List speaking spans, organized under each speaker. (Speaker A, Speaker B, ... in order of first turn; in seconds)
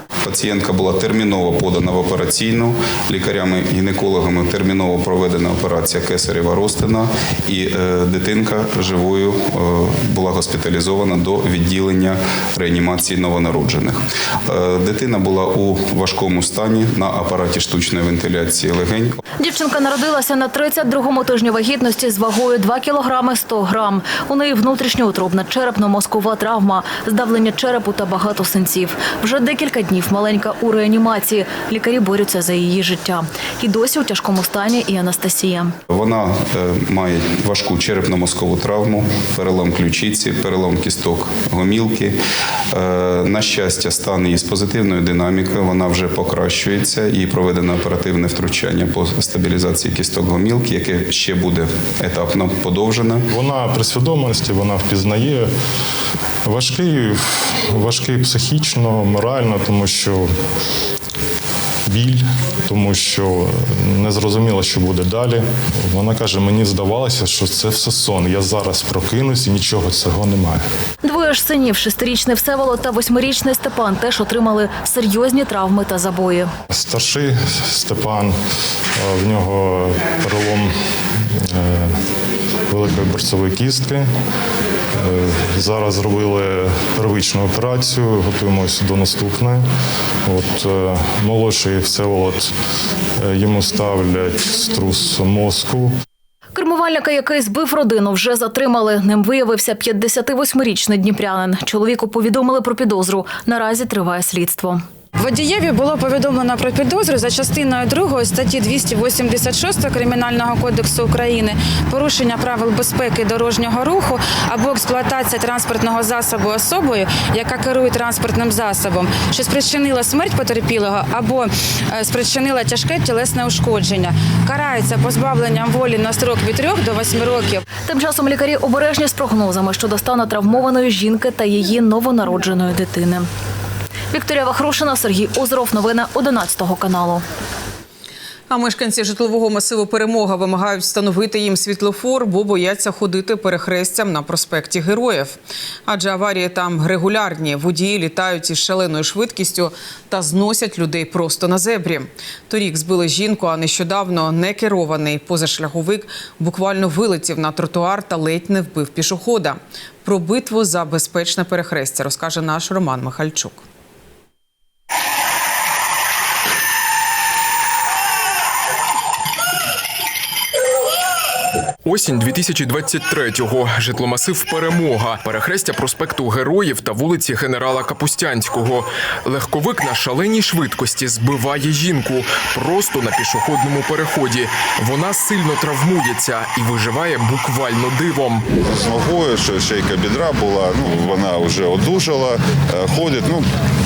Speaker A: 0.2-19.2, 35.9-42.2, 42.7-53.2
Speaker B: 19.4-35.8, 71.0-76.5, 96.5-104.8, 127.8-133.3, 134.1-137.2
Speaker C: 53.3-55.5, 56.4-60.3, 61.9-70.6, 76.7-78.3, 78.9-82.0, 82.7-84.1, 84.9-89.6, 90.2-92.5, 93.2-95.9
Speaker D: 105.2-127.6
Speaker E: 138.5-163.6
Speaker F: 171.8-188.4
Speaker G: 188.6-193.4